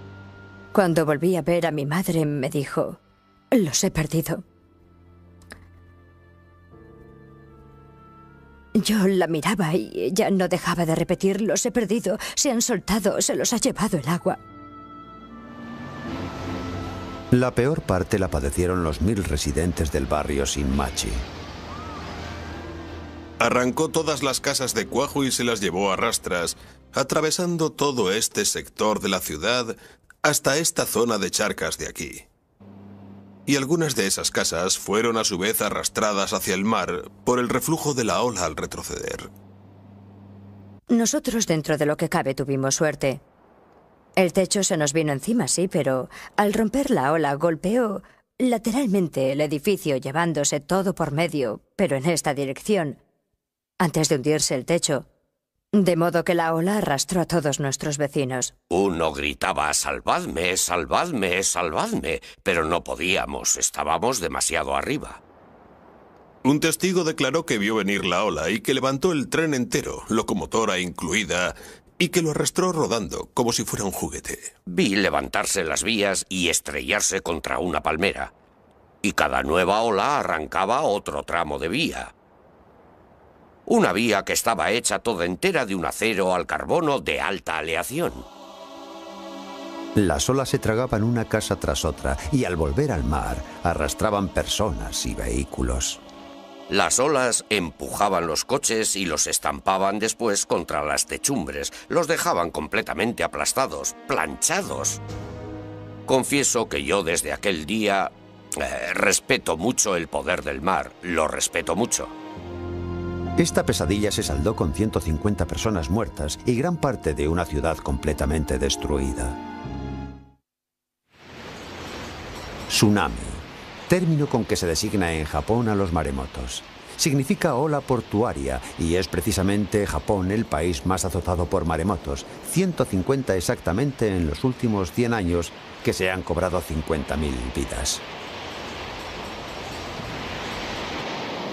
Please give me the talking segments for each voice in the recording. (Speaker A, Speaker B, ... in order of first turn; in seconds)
Speaker A: 0.7-3.0, 3.5-4.4, 8.7-14.4, 40.9-43.2, 44.2-53.0, 53.8-55.1, 55.7-58.5
Speaker B: 17.3-21.2, 90.0-96.0, 113.4-119.4, 122.7-138.0
Speaker C: 23.4-32.2, 33.5-39.3, 66.4-74.5
Speaker D: 58.7-65.2, 74.7-78.3, 79.0-82.1, 83.7-88.2, 96.7-105.0, 106.1-112.1